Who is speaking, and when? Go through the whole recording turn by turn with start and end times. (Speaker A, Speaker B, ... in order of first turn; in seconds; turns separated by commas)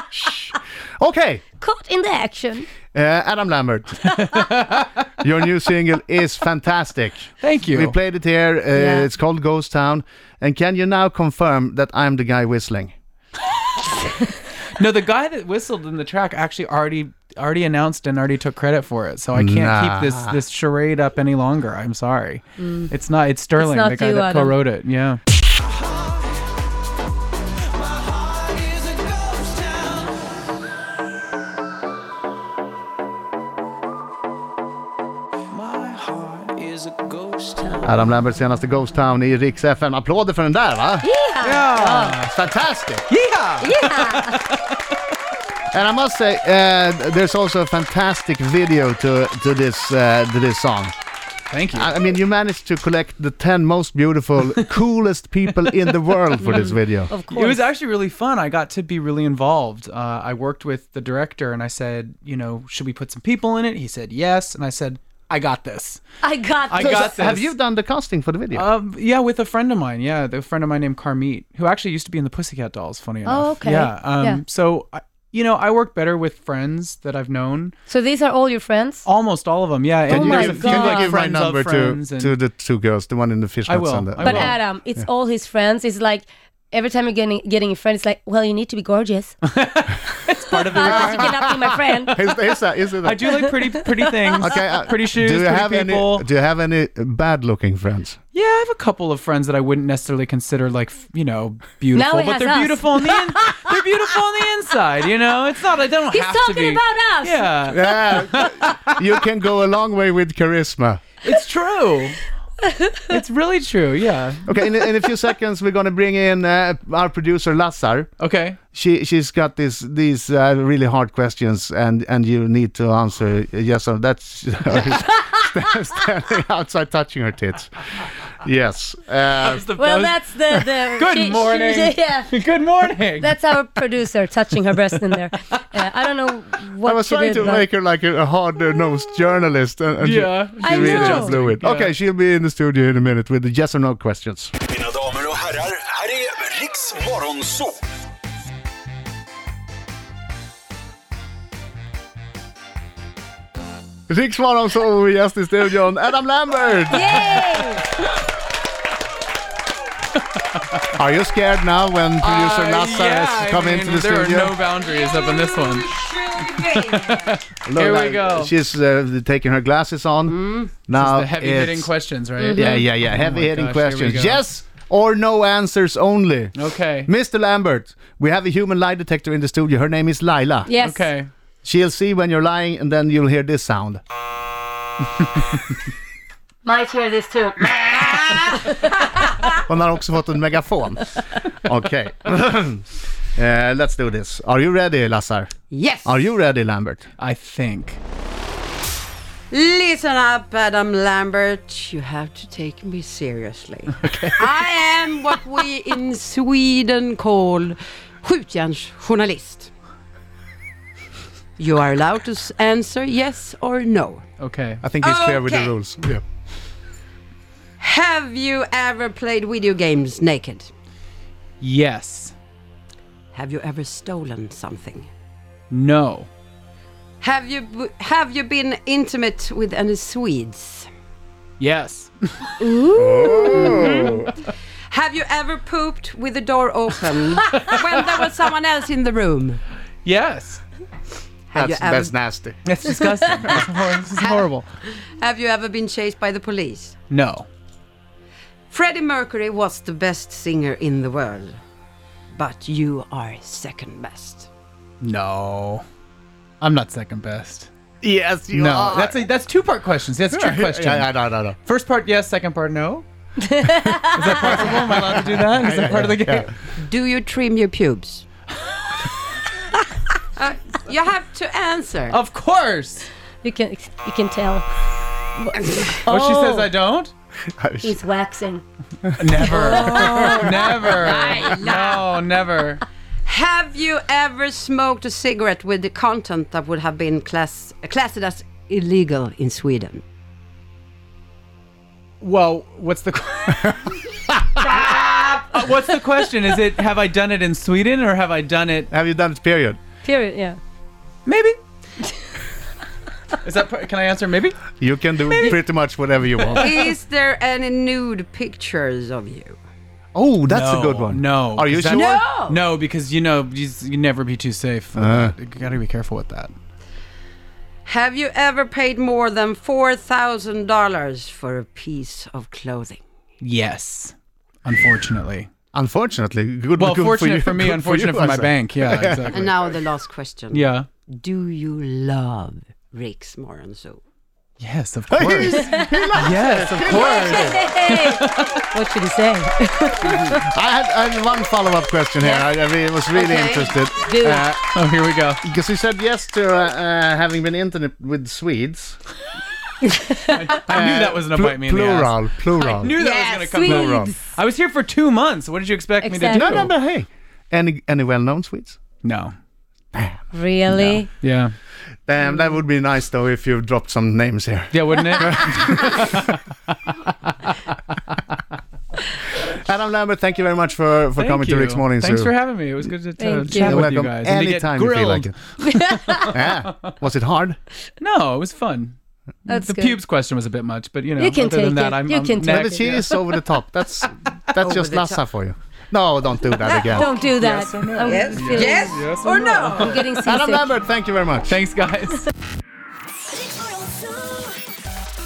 Speaker A: 0.2-1.4, Speaker B: 1.6-2.7, Speaker A: 2.9-4.2, Speaker C: 4.2-4.9, Speaker A: 5.2-12.9, Speaker C: 7.4-8.0, Speaker B: 8.7-9.1, Speaker C: 14.7-25.2, Speaker A: 19.3-20.4, Speaker B: 22.6-22.9, Speaker B: 23.6-24.6, Speaker C: 28.0-30.2, Speaker C: 35.5-37.8, Speaker A: 37.8-41.1, Speaker B: 41.0-42.2, Speaker C: 41.4-42.3, Speaker A: 42.2-43.0, Speaker C: 43.1-44.8, Speaker B: 43.6-44.5, Speaker A: 45.7-50.9, Speaker C: 51.5-51.9, Speaker A: 51.7-57.1, Speaker C: 55.6-56.7, Speaker B: 56.4-57.7, Speaker C: 57.3-66.0, Speaker B: 66.2-67.1, Speaker C: 66.7-67.5, Speaker A: 66.8-68.7, Speaker C: 68.5-77.8, Speaker B: 73.2-74.4, Speaker B: 77.9-79.0, Speaker C: 79.0-82.3, Speaker B: 80.1-81.1, Speaker A: 80.1-85.1, Speaker C: 83.7-84.5, Speaker B: 84.2-89.3, Speaker C: 89.4-92.2, Speaker B: 90.6-92.2, Speaker A: 90.8-93.4, Speaker C: 93.0-96.2, Speaker B: 94.0-94.3, Speaker A: 94.4-98.2, Speaker C: 98.3-109.0, Speaker B: 101.9-103.6, Speaker B: 106.0-107.6, Speaker A: 107.7-111.0, Speaker C: 111.2-112.2, Speaker C: 113.1-114.6, Speaker A: 114.5-118.1, Speaker C: 118.2-118.6, Speaker A: 118.7-127.7, Speaker A: 128.4-129.6, Speaker C: 129.4-133.6, Speaker B: 129.7-132.3, Speaker B: 133.1-137.7, Speaker C: 134.8-135.9, Speaker A: 136.8-144.5, Speaker C: 140.0-141.9, Speaker B: 140.6-141.3, Speaker D: 144.8-147.8, Speaker A: 154.1-157.1, Speaker B: 156.9-157.9, Speaker A: 160.9-164.6, Speaker C: 162.2-168.6, Speaker E: 164.8-167.4, Speaker A: 167.6-171.9, Speaker E: 170.3-170.7, Speaker C: 170.9-174.4, Speaker B: 172.4-172.8, Speaker A: 172.5-180.7, Speaker C: 176.5-177.1, Speaker B: 180.7-181.1, Speaker C: 180.8-181.3, Speaker A: 181.6-184.0, Speaker B: 186.6-188.9, Speaker E: 187.8-188.6, Speaker A: 189.5-195.5, Speaker E: 195.7-196.2, Speaker A: 196.0-197.1, Speaker C: 197.2-198.0, Speaker E: 199.5-209.7, Speaker E: 211.6-214.2, Speaker C: 214.4-214.8, Speaker A: 214.8-216.2, Speaker E: 215.0-215.8, Speaker E: 217.8-220.7, Speaker C: 221.6-222.3, Speaker E: 223.3-225.1, Speaker C: 225.7-226.3, Speaker E: 227.2-230.9, Speaker C: 231.6-232.6, Speaker B: 232.6-233.2, Speaker A: 232.9-234.3, Speaker E: 233.1-234.1, Speaker C: 233.4-234.3, Speaker E: 234.9-239.6, Speaker C: 237.4-238.2, Speaker C: 240.0-240.6, Speaker E: 241.5-242.1, Speaker A: 241.5-242.6, Speaker C: 242.6-244.7, Speaker E: 244.2-246.9, Speaker C: 247.1-247.5, Speaker E: 248.7-251.6, Speaker E: 252.3-254.5, Speaker C: 255.0-255.8, Speaker C: 256.6-257.7, Speaker A: 258.0-259.2, Speaker C: 258.5-263.1, Speaker A: 260.3-261.6, Speaker B: 263.4-264.6, Speaker C: 263.9-266.5, Speaker A: 264.3-266.5, Speaker E: 266.8-268.2, Speaker E: 270.4-272.2, Speaker C: 272.1-273.1, Speaker B: 273.4-274.6, Speaker E: 275.4-276.1, Speaker B: 275.4-276.7, Speaker C: 276.1-277.1, Speaker A: 277.5-278.0, Speaker B: 277.8-278.6, Speaker A: 279.0-279.4, Speaker C: 279.2-282.8, Speaker B: 279.4-280.5, Speaker E: 279.6-282.1, Speaker E: 283.2-290.0, Speaker C: 292.2-294.0, Speaker C: 294.6-298.9, Speaker A: 298.9-299.8, Speaker B: 300.0-300.6, Speaker C: 301.2-301.6, Speaker C: 303.4-304.6, Speaker A: 304.8-306.8, Speaker C: 305.2-305.7, Speaker C: 306.4-306.8, Speaker E: 306.5-309.6, Speaker A: 310.1-312.2, Speaker C: 310.5-316.5, Speaker E: 311.9-312.6, Speaker A: 314.9-315.3, Speaker E: 317.9-323.0, Speaker C: 323.4-325.5, Speaker A: 325.7-329.4, Speaker C: 326.8-329.5, Speaker E: 329.2-334.0, Speaker C: 330.5-330.9, Speaker C: 334.6-338.6, Speaker A: 335.1-337.6, Speaker B: 335.6-335.9, Speaker B: 336.8-340.4, Speaker E: 340.0-340.4, Speaker A: 340.3-344.6, Speaker E: 343.1-343.9, Speaker B: 344.0-344.5, Speaker C: 344.7-345.4, Speaker A: 345.4-349.0, Speaker B: 349.9-350.4, Speaker C: 350.3-356.7, Speaker A: 350.7-352.9, Speaker E: 352.9-353.6, Speaker B: 353.5-354.2, Speaker A: 353.6-354.1, Speaker B: 356.0-356.6, Speaker A: 356.3-358.8, Speaker C: 359.0-359.3, Speaker A: 359.9-361.0, Speaker B: 360.3-361.1, Speaker C: 361.2-361.5, Speaker A: 362.1-366.2, Speaker C: 364.7-366.4, Speaker A: 369.4-372.3, Speaker C: 371.2-376.9, Speaker B: 373.2-374.0, Speaker A: 373.5-375.3, Speaker B: 375.6-376.3, Speaker A: 376.2-377.6, Speaker C: 378.0-378.9, Speaker B: 379.5-380.0, Speaker C: 379.5-383.1, Speaker B: 381.2-382.9, Speaker A: 382.4-387.1, Speaker E: 384.6-385.2, Speaker E: 386.7-387.0, Speaker B: 386.9-388.9, Speaker C: 386.9-390.1, Speaker E: 388.0-390.1, Speaker B: 389.8-390.6, Speaker A: 390.2-391.6, Speaker C: 391.5-392.3, Speaker E: 393.4-394.5